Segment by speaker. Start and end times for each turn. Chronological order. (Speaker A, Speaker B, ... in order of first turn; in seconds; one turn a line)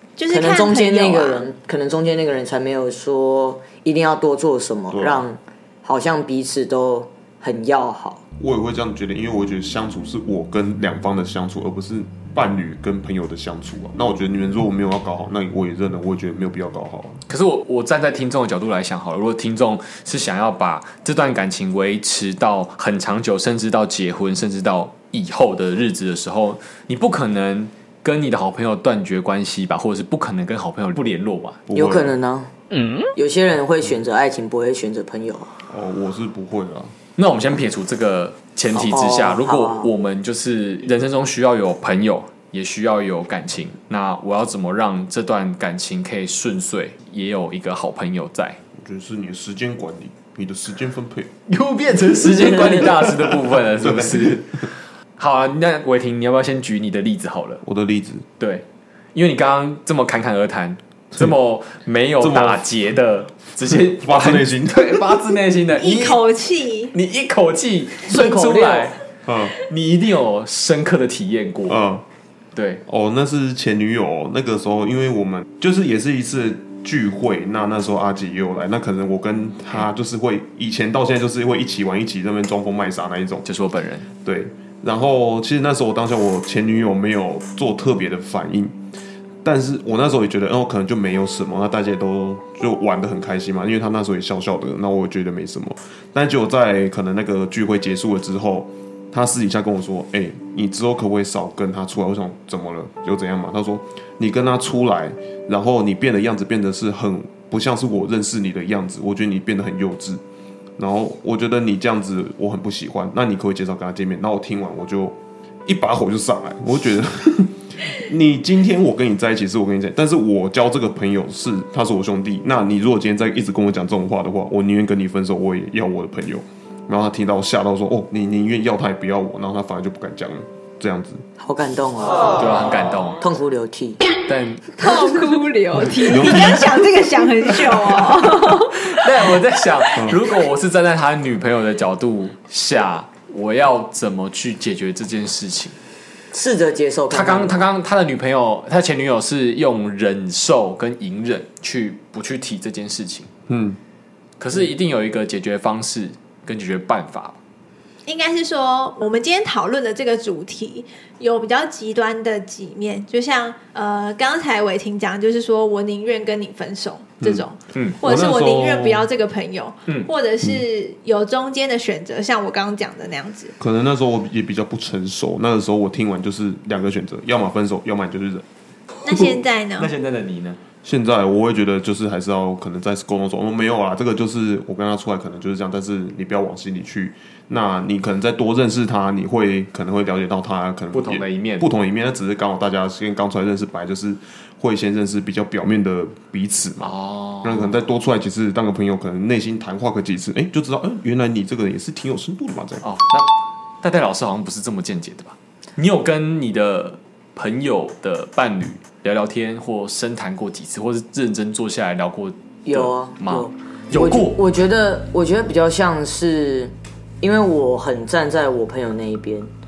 Speaker A: 0.2-1.5
Speaker B: 0.3-8.2
Speaker C: 4.9-5.2
Speaker C: 8.4-17.2
Speaker D: 17.3-31.6
Speaker C: 31.7-32.1
Speaker B: 31.7-32.5
Speaker B: 33.1-35.5
Speaker C: 35.7-36.9
Speaker D: 37.2-48.6
Speaker B: 38.7-39.9
Speaker C: 48.8-51.3
Speaker D: 51.5-57.6
Speaker C: 53.8-54.4
Speaker C: 57.6-58.2
Speaker D: 58.4-66.2
Speaker C: 62.2-62.6
Speaker C: 63.7-65.0
Speaker A: 65.8-66.9
Speaker D: 66.9-69.0
Speaker B: 68.1-68.9
Speaker C: 69.2-69.5
Speaker D: 69.6-71.8
Speaker C: 71.7-72.0
Speaker D: 72.5-72.8
Speaker C: 72.8-83.5
Speaker D: 83.4-84.1
Speaker C: 84.2-88.7
Speaker C: 89.4-110.2
Speaker C: 110.8-131.2
Speaker B: 131.4-132.4
Speaker D: 132.4-133.2
Speaker B: 133.2-134.0
Speaker D: 134.3-134.7
Speaker A: 134.8-139.0
Speaker C: 136.0-136.8
Speaker D: 138.6-145.8
Speaker B: 146.3-147.6
Speaker D: 147.1-153.3
Speaker C: 153.5-153.8
Speaker D: 154.4-157.4
Speaker A: 158.1-173.5
Speaker D: 167.7-168.0
Speaker C: 168.0-169.0
Speaker C: 173.6-178.4
Speaker A: 179.0-179.9
Speaker D: 179.1-180.6
Speaker C: 180.8-196.9
Speaker D: 190.9-191.7
Speaker D: 196.8-197.8
Speaker C: 197.4-202.8
Speaker D: 202.8-203.3
Speaker D: 203.8-214.4
Speaker B: 212.6-219.5